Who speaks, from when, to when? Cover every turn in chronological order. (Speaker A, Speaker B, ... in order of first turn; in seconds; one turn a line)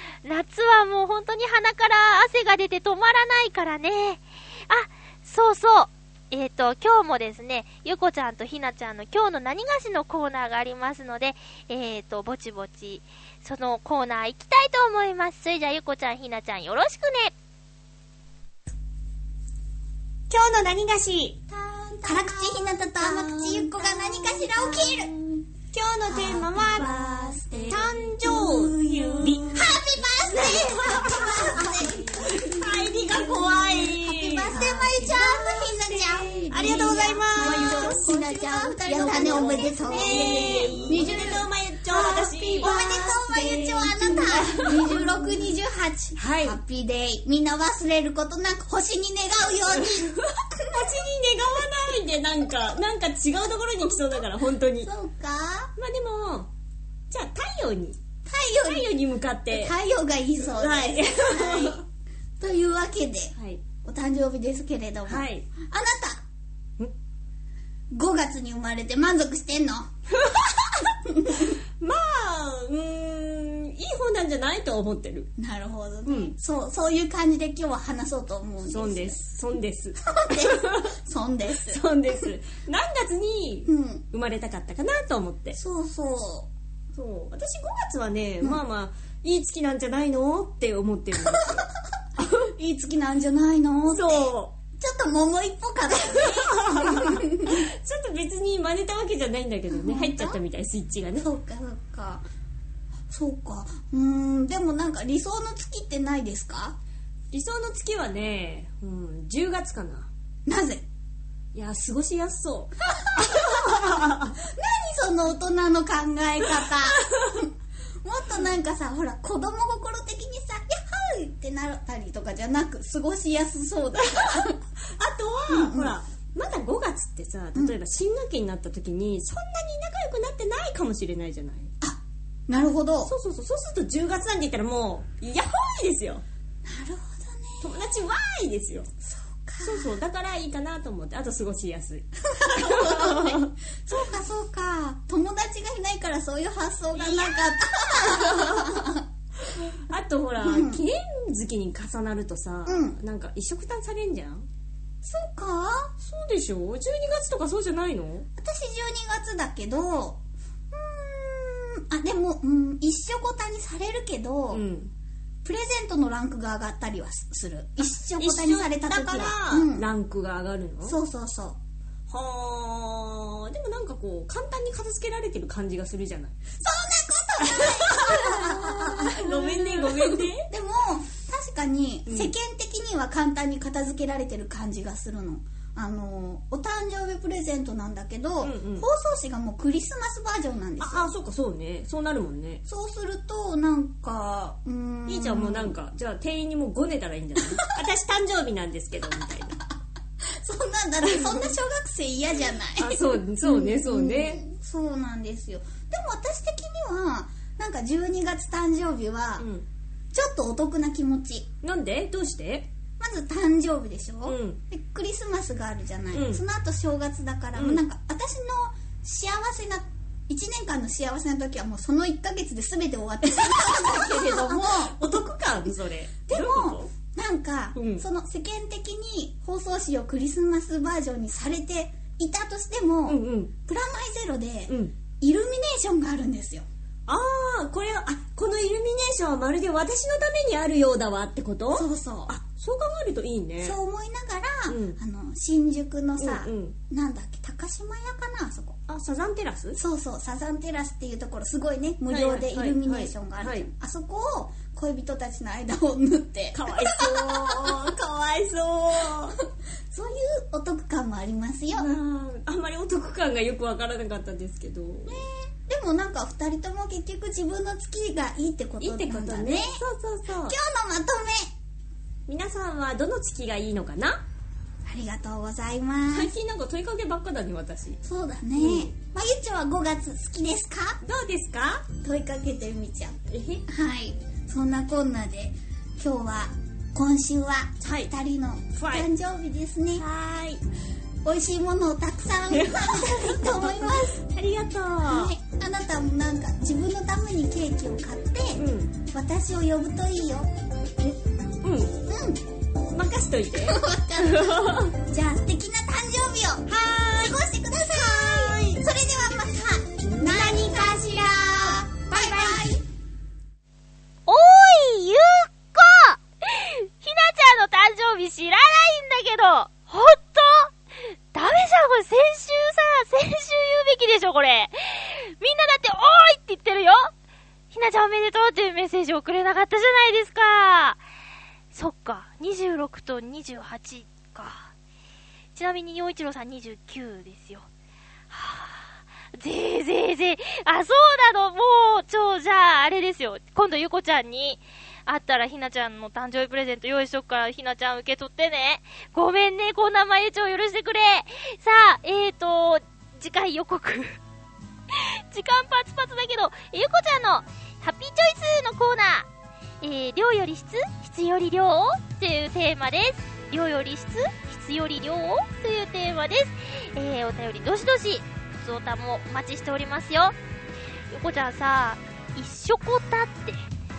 Speaker A: 0.2-17.3
Speaker B: 20.3-21.1
Speaker B: 21.6-22.4
Speaker C: 22.0-25.1
Speaker B: 23.0-25.1
Speaker B: 25.7-45.4
Speaker C: 26.1-27.9
Speaker C: 29.1-41.5
Speaker A: 36.5-38.0
Speaker A: 38.8-41.0
Speaker C: 42.6-50.2
Speaker B: 46.2-46.6
Speaker B: 49.7-54.9
Speaker C: 50.7-51.0
Speaker C: 51.6-52.0
Speaker C: 53.8-54.3
Speaker C: 54.8-55.7
Speaker B: 55.8-56.5
Speaker B: 57.1-58.0
Speaker C: 58.2-59.0
Speaker B: 58.6-59.7
Speaker C: 59.5-61.9
Speaker B: 60.5-61.8
Speaker C: 62.4-66.2
Speaker B: 65.1-65.5
Speaker C: 67.9-69.9
Speaker C: 70.7-71.5
Speaker B: 71.8-75.3
Speaker C: 75.4-79.2
Speaker B: 76.1-76.3
Speaker B: 78.6-81.0
Speaker C: 80.1-82.3
Speaker B: 81.5-85.6
Speaker C: 83.7-84.0
Speaker C: 85.5-86.5
Speaker B: 87.0-91.7
Speaker C: 91.3-91.6
Speaker B: 92.2-92.5
Speaker C: 92.2-97.6
Speaker B: 93.9-94.5
Speaker B: 96.0-101.3
Speaker C: 99.7-100.4
Speaker C: 101.2-102.3
Speaker C: 103.1-106.8
Speaker B: 107.3-110.1
Speaker C: 110.5-110.9
Speaker B: 111.5-114.3
Speaker C: 112.9-117.5
Speaker C: 118.0-124.6
Speaker B: 124.0-131.7
Speaker C: 125.5-126.0
Speaker C: 131.8-133.1
Speaker B: 133.1-136.2
Speaker C: 136.6-137.8
Speaker B: 137.6-138.9
Speaker C: 139.0-140.0
Speaker B: 139.6-143.5
Speaker C: 142.4-149.0
Speaker B: 146.9-148.9
Speaker B: 149.6-154.5
Speaker C: 150.4-150.8
Speaker C: 152.7-153.0
Speaker C: 155.0-155.9
Speaker B: 156.0-158.3
Speaker C: 158.4-164.6
Speaker B: 164.5-164.9
Speaker C: 165.4-169.9
Speaker B: 167.8-171.0
Speaker C: 170.8-171.6
Speaker B: 172.1-176.4
Speaker C: 176.6-191.1
Speaker B: 177.4-180.5
Speaker B: 182.1-182.3
Speaker B: 188.4-188.9
Speaker B: 190.8-192.6
Speaker C: 192.7-195.8
Speaker B: 195.1-199.6
Speaker C: 197.4-197.8
Speaker C: 200.2-209.5
Speaker B: 201.0-201.6
Speaker B: 202.8-204.4
Speaker B: 209.4-209.7
Speaker C: 210.1-211.5
Speaker B: 211.6-212.7
Speaker C: 213.0-225.7
Speaker B: 214.3-214.6
Speaker B: 216.1-216.4
Speaker B: 217.6-217.8
Speaker B: 223.5-226.9
Speaker C: 226.3-236.7
Speaker B: 227.8-228.1
Speaker B: 233.1-233.5
Speaker B: 234.7-234.9
Speaker B: 237.1-243.8
Speaker C: 241.7-242.3
Speaker C: 243.6-248.8
Speaker B: 244.7-245.0
Speaker B: 246.2-246.8
Speaker B: 248.9-249.8
Speaker C: 249.8-257.8
Speaker B: 252.1-253.7
Speaker B: 256.5-259.4
Speaker C: 259.9-261.9
Speaker B: 261.7-265.3
Speaker C: 265.1-269.8
Speaker B: 268.8-270.6
Speaker C: 270.4-271.5
Speaker B: 272.3-274.2
Speaker C: 274.9-276.3
Speaker B: 276.1-278.0
Speaker C: 278.0-281.0
Speaker B: 278.6-278.9
Speaker B: 281.0-281.9
Speaker C: 282.0-290.1
Speaker B: 283.3-283.6
Speaker B: 287.8-288.1
Speaker B: 288.8-289.1
Speaker B: 290.0-290.6
Speaker C: 291.2-294.2
Speaker B: 292.5-295.3
Speaker C: 295.1-300.5
Speaker B: 298.6-298.9
Speaker B: 301.6-301.9
Speaker C: 302.1-302.4
Speaker B: 302.9-304.9
Speaker C: 303.5-312.8
Speaker B: 308.2-308.7
Speaker A: 314.3-320.7
Speaker A: 321.3-327.1
Speaker A: 327.7-331.0
Speaker A: 331.7-334.7
Speaker A: 335.6-337.7
Speaker A: 338.3-354.2
Speaker A: 354.9-359.3
Speaker A: 359.8-370.4
Speaker A: 371.1-373.7